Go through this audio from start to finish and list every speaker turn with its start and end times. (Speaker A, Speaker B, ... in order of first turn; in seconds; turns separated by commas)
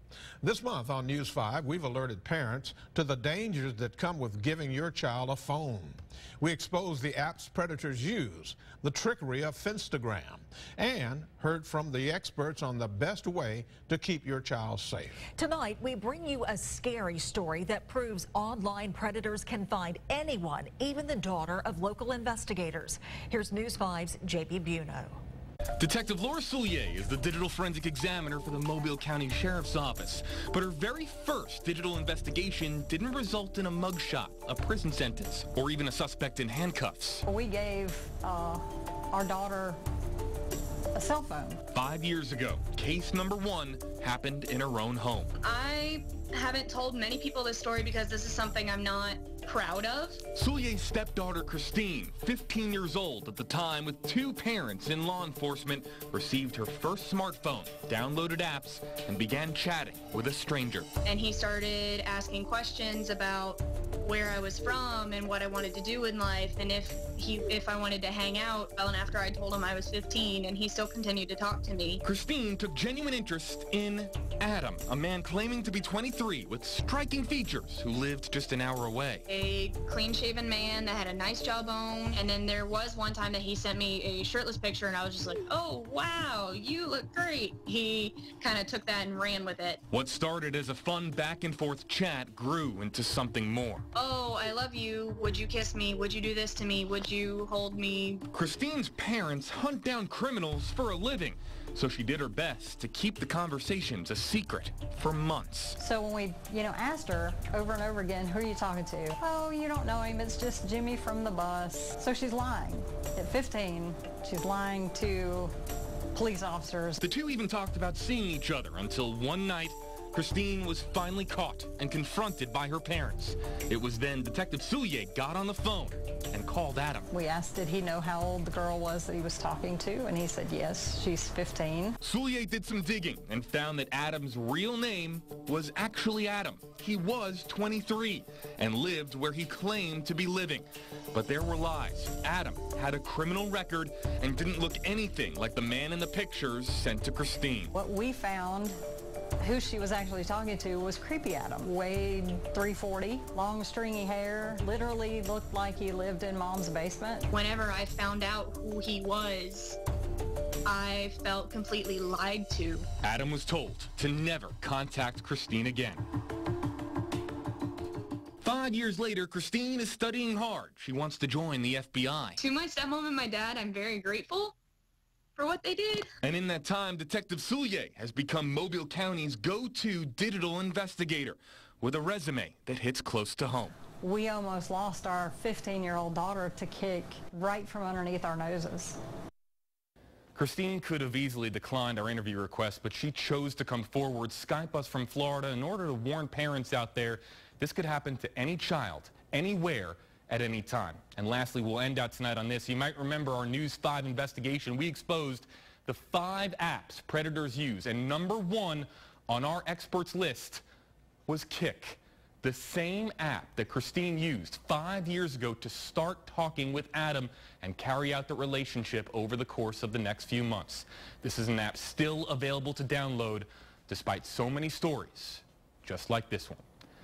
Speaker A: 0.4-15.2, Speaker B: 15.4-25.2, Speaker C: 25.8-37.2, Speaker D: 37.2-39.8, Speaker D: 40.9-41.6, Speaker C: 41.7-45.3, Speaker E: 45.4-50.2, Speaker C: 50.3-60.9, Speaker E: 61.0-72.0, Speaker C: 72.0-79.2, Speaker E: 79.3-89.8, Speaker C: 89.9-93.8, Speaker E: 93.9-98.2, Speaker C: 98.3-105.8, Speaker D: 105.8-115.5, Speaker D: 116.1-117.0, Speaker C: 117.0-127.1, Speaker D: 127.1-132.0, Speaker C: 132.0-147.7, Speaker D: 147.7-148.8, Speaker D: 149.4-157.3, Speaker E: 157.3-159.8, Speaker E: 160.7-162.8, Speaker C: 163.0-166.0, Speaker C: 168.4-172.4, Speaker E: 172.4-174.5, Speaker E: 175.3-176.1, Speaker C: 176.2-183.8, Speaker D: 184.0-189.0, Speaker C: 190.3-210.6, Speaker C: 211.3-226.6